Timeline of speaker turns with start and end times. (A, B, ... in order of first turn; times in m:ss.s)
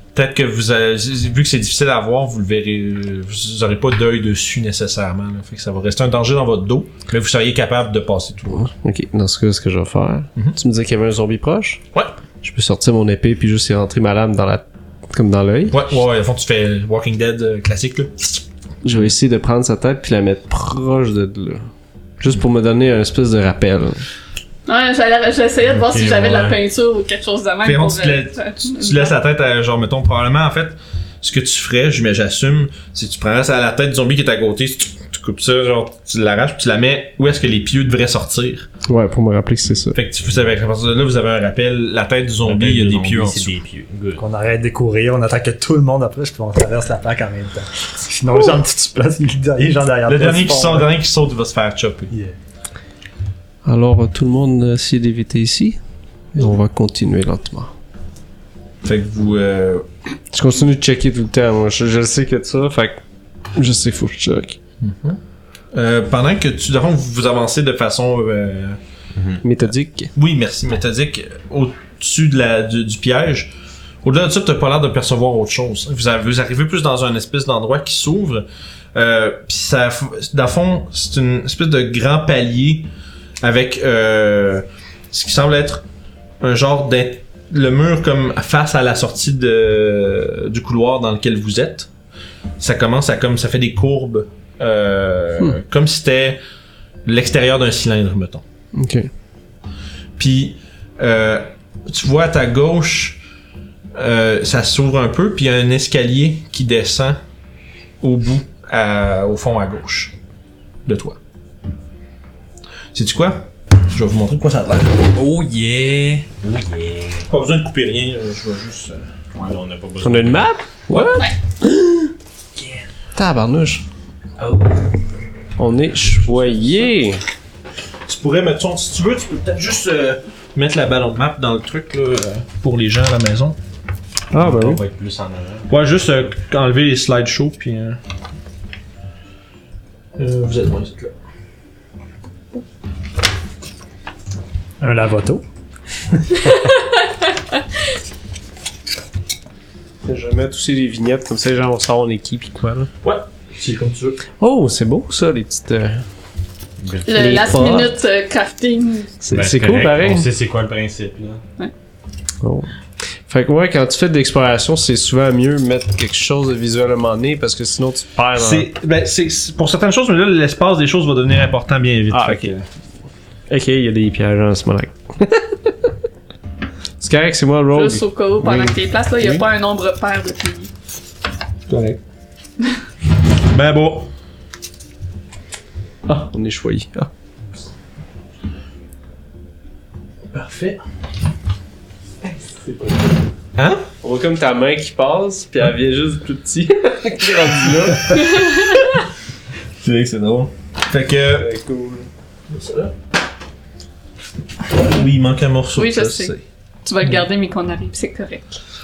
0:00.1-0:08.7 A
0:08.5-0:11.8 B
0:12.4-0:15.8 B
0:15.7-0:18.4 A
0:18.8-0:21.6 B
0:22.2-0:24.0 B
0:24.6-0:29.2 C
0:25.6-0:26.6 D
0:27.6-0:38.7 A
0:38.9-0:40.0 B
0:39.9-0:43.5 A
0:42.4-0:44.2 D
0:44.2-0:50.9 E
0:50.0-0:52.1 A
0:53.6-0:55.8 B
0:56.3-0:57.7 B
0:58.8-0:59.8 A
1:00.3-1:03.0 B
1:03.5-1:04.6 B
1:04.8-1:05.2 A
1:05.7-1:08.8 A
1:09.2-1:09.4 D
1:09.4-1:10.1 B
1:10.1-1:13.5 A
1:14.0-1:22.9 A
1:23.4-1:25.8 A
1:26.4-1:31.9 A
1:32.6-1:36.4 A
1:37.0-1:38.4 A
1:38.7-1:39.1 B
1:40.2-1:43.2 A
1:43.9-1:47.2 A
1:48.0-1:50.1 A
1:50.8-1:51.2 A
1:52.9-1:55.1 A
1:55.1-1:57.3 D
1:57.3-1:59.0 A
1:59.3-2:00.5 D
2:00.0-2:02.0 B
2:00.9-2:01.2 A
2:03.1-2:03.8 B
2:05.6-2:07.2 B
2:06.2-2:06.8 D
2:08.1-2:13.6 A
2:14.3-2:14.8 B
2:14.4-2:16.3 D
2:15.7-2:18.0 A
2:20.2-2:21.1 A
2:24.8-2:25.4 E
2:26.5-2:26.8 C
2:30.0-2:32.9 B
2:33.0-2:34.2 A
2:34.4-2:36.0 B
2:36.8-2:37.7 D
2:37.0-2:39.2 C
2:37.1-2:37.9 B
2:39.2-2:40.3 B
2:39.3-2:41.4 D
2:42.4-2:42.7 B
2:43.2-2:48.7 B
2:48.4-2:52.6 A
2:52.1-2:52.5 B
2:53.5-2:55.9 B
2:57.0-2:59.4 B
2:57.7-3:00.7 C
3:01.7-3:02.0 A
3:03.5-3:04.1 A
3:06.0-3:07.1 B
3:10.3-3:10.8 A
3:13.6-3:13.8 A
3:14.0-3:18.4 B
3:19.8-3:21.5 A
3:21.3-3:22.1 B
3:22.5-3:22.9 A
3:24.8-3:26.4 A
3:25.7-3:28.6 C